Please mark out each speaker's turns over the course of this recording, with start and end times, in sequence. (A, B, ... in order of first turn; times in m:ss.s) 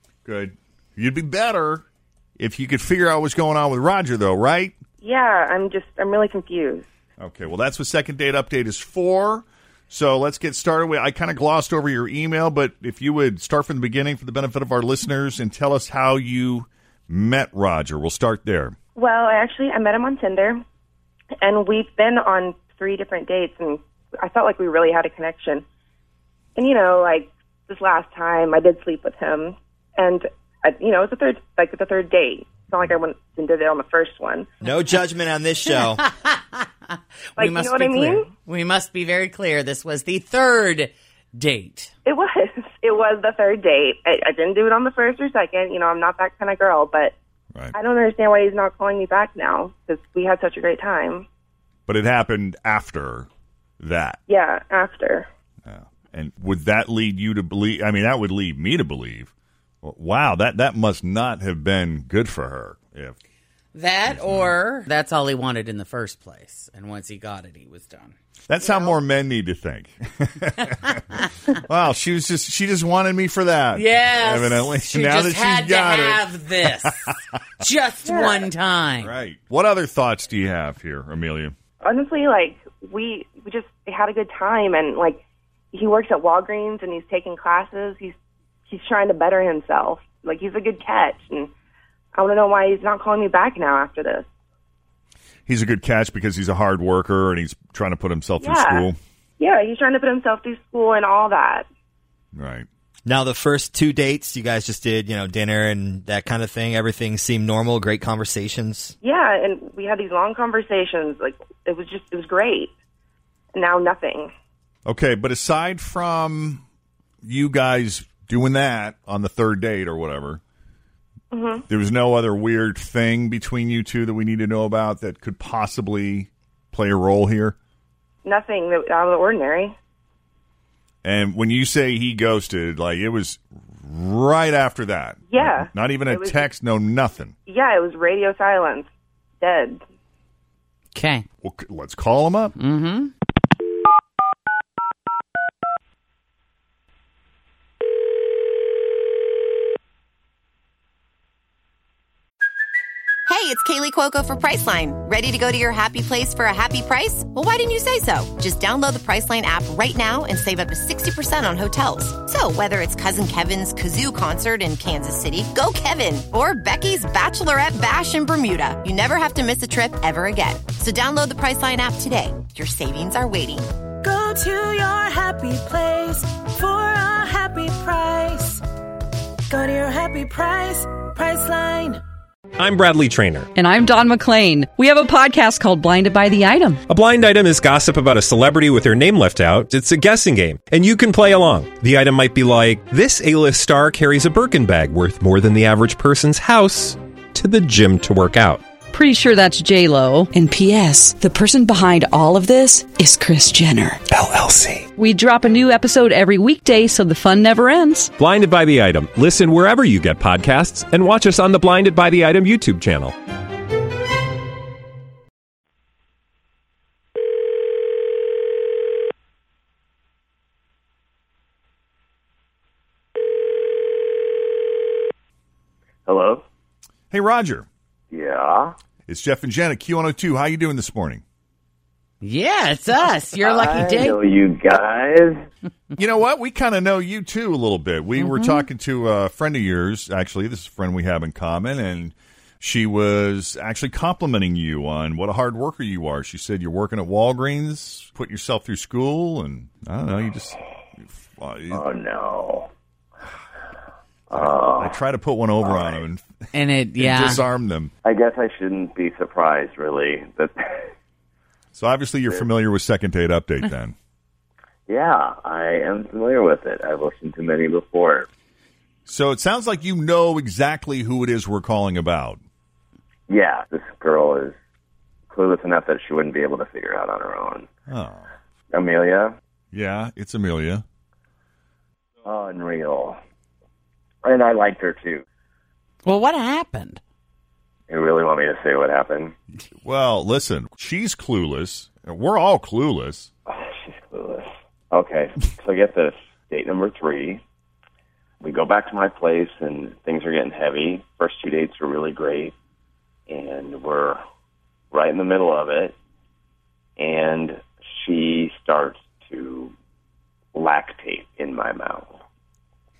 0:00.2-0:01.8 A
0:02.4-0:04.8 A
0:05.0-0:06.8 B
0:07.2-0:18.8 A
0:19.0-0:20.6 B
0:21.4-0:25.6 B
0:26.6-0:34.5 B
0:34.6-0:36.0 C
0:36.0-0:36.7 D
0:37.4-0:38.3 B
0:37.4-0:41.9 D
0:42.1-0:47.1 B
0:47.7-0:51.3 B
0:51.9-0:53.3 A
0:53.8-0:54.2 A
0:54.3-0:55.3 B
0:55.7-0:59.3 A
0:59.8-1:03.2 A
1:03.7-1:08.1 D
1:04.1-1:04.5 A
1:08.5-1:11.0 A
1:08.7-1:08.9 B
1:11.6-1:16.2 A
1:13.7-1:19.1 D
1:18.1-1:18.4 B
1:19.0-1:21.5 A
1:21.8-1:25.2 B
1:25.7-1:28.1 B
1:28.7-1:31.5 B
1:32.2-1:34.3 B
1:35.5-1:39.0 A
1:38.4-1:38.9 B
1:39.4-1:41.7 B
1:42.4-1:42.7 A
1:43.1-1:49.0 C
1:49.0-1:52.7 B
1:53.5-1:54.3 B
1:54.9-1:56.6 A
1:57.2-2:00.4 A
2:01.3-2:01.6 B
2:01.7-2:07.6 A
2:08.2-2:09.8 B
2:11.0-2:17.4 A
2:15.3-2:16.4 B
2:17.5-2:18.9 B
2:19.4-2:19.8 B
2:20.9-2:21.2 D
2:21.4-2:22.6 A
2:22.6-2:23.1 D
2:33.3-2:53.6 E
2:54.0-2:58.6 F
2:59.5-3:02.0 F
3:02.6-3:03.5 G
3:03.5-3:06.8 H
3:06.9-3:18.7 G
3:18.9-3:23.0 H
3:20.4-3:21.2 I
3:22.8-3:24.0 I
3:24.1-3:24.8 G
3:25.0-3:28.1 H
3:28.2-3:33.2 G
3:46.1-3:46.4 J
3:47.1-3:47.7 A
3:48.1-3:48.8 J
3:49.1-3:51.2 A
3:52.2-3:54.2 D
3:53.4-3:55.4 J
3:56.0-4:11.8 A
3:58.2-3:58.6 D
4:11.7-4:12.7 J
4:14.3-4:15.0 J
4:14.3-4:16.2 A
4:15.6-4:16.0 J
4:16.5-4:17.4 D
4:17.0-4:17.9 A
4:18.0-4:20.9 J
4:21.7-4:24.0 A
4:24.9-4:28.3 J
4:29.1-4:32.4 A
4:33.3-4:34.5 J
4:35.3-4:37.7 J
4:37.9-4:38.3 A
4:38.7-4:39.3 J
4:39.7-4:40.8 A
4:42.2-4:43.2 J
4:44.2-4:45.2 J
4:46.0-4:47.0 D
4:47.9-4:49.3 J
4:49.8-4:53.3 A
4:53.5-4:57.4 J
4:58.4-5:02.5 J
5:03.3-5:04.2 J
5:04.9-5:06.0 J
5:07.0-5:09.7 J
5:10.6-5:12.2 J